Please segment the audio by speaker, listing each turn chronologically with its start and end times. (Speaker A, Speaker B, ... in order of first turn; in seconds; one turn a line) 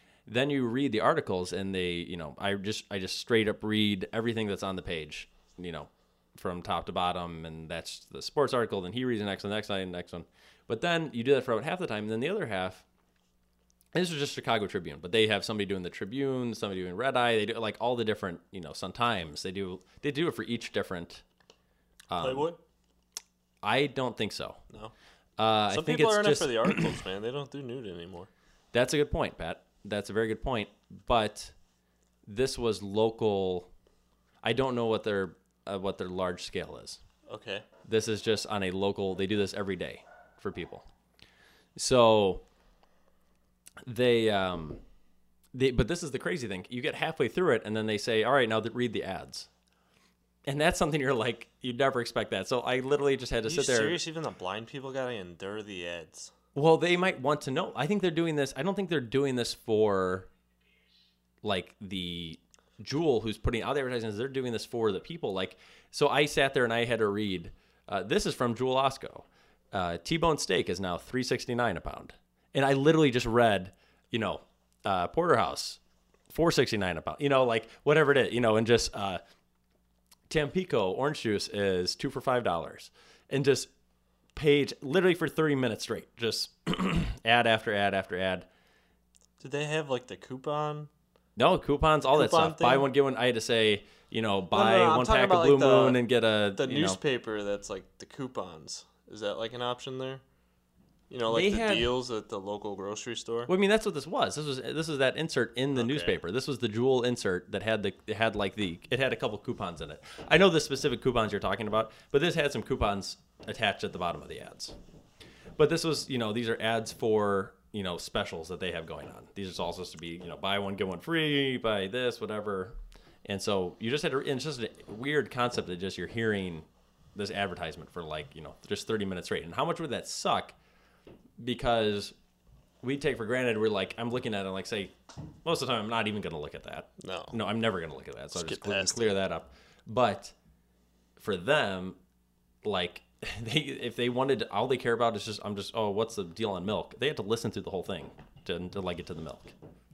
Speaker A: 0.3-12.8
Speaker A: 13.9-21.2
Speaker A: 22.1-22.5
Speaker B: 22.2-22.6
Speaker A: 23.6-24.6
Speaker A: 25.4-26.9
Speaker B: 25.7-28.3
Speaker A: 28.7-31.5
Speaker A: 32.3-33.7
Speaker A: 34.4-37.0
Speaker B: 37.3-37.7
Speaker A: 37.9-40.9
Speaker A: 41.8-42.4
Speaker A: 43.9-44.8
Speaker A: 45.5-49.5
Speaker A: 50.5-54.0
Speaker B: 53.4-56.3
Speaker A: 56.5-60.3
Speaker A: 61.4-75.8
Speaker A: 76.3-79.2
Speaker A: 80.3-83.7
Speaker A: 84.4-88.5
Speaker B: 89.4-90.9
Speaker A: 91.4-97.0
Speaker B: 92.1-92.9
Speaker B: 94.5-96.0
Speaker B: 96.5-100.2
Speaker B: 101.1-103.5
Speaker A: 101.3-101.9
Speaker A: 103.5-114.8
Speaker B: 105.8-106.2
Speaker A: 115.6-130.6
Speaker A: 131.4-132.1
Speaker A: 132.8-140.3
Speaker B: 137.0-137.4
Speaker B: 138.3-139.1
Speaker A: 141.2-142.0
Speaker A: 142.6-149.5